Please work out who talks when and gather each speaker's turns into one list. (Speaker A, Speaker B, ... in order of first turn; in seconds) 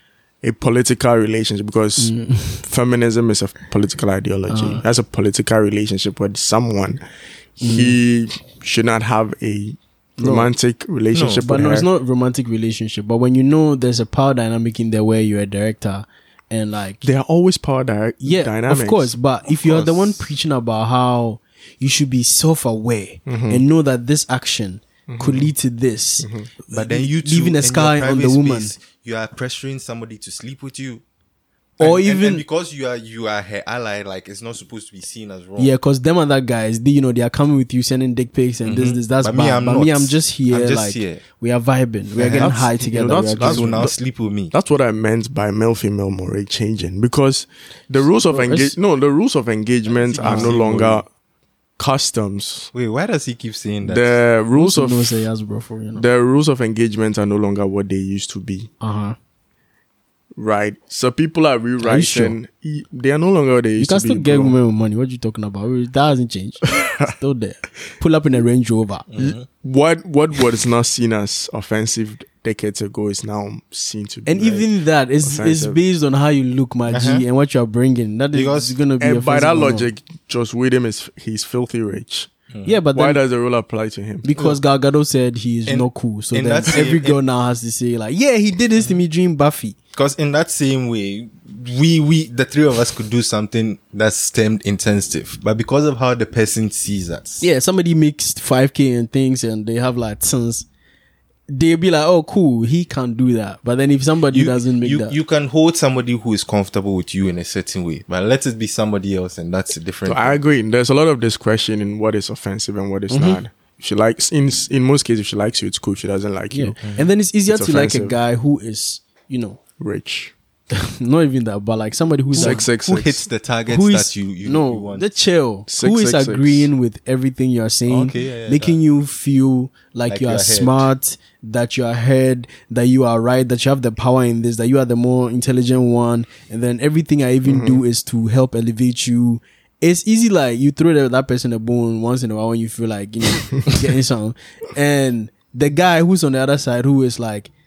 Speaker A: 0.4-7.0, 7.6-11.9, 17.0-19.2, 23.3-23.6, 25.1-25.5, 26.2-26.5, 42.4-43.9, 44.5-51.1, 51.8-52.7, 53.9-55.3, 56.0-58.7, 60.4-64.6, 69.2-74.7, 75.2-75.8, 79.0-82.3, 82.9-84.3, 110.1-116.8, 117.5-118.2, 119.8-120.3, 122.3-123.2, 125.7-126.7, 137.5-137.8
Speaker B: 2.0-2.6, 4.5-4.8, 7.6-8.0, 10.2-10.5, 11.4-17.1, 18.2-28.7, 31.8-32.4, 35.6-43.9, 48.3-48.7, 50.2-50.6, 54.5-56.0, 58.8-59.2, 61.8-62.4, 63.8-69.1, 74.3-79.9, 82.7-83.2, 84.2-89.8, 97.4-100.7, 101.5-105.2, 113.1-113.4, 116.5-119.6, 120.7-122.7, 123.7-147.5
Speaker C: 11.1-11.5, 19.6-20.1, 26.7-31.0, 31.8-35.7, 38.6-41.2, 42.2-42.7, 43.4-44.5, 49.9-51.0, 52.7-54.2, 69.1-69.5, 76.9-77.2, 78.3-78.8, 85.7-87.2, 90.0-97.5, 104.3-110.4, 122.3-125.1, 127.9-128.8, 130.1-130.9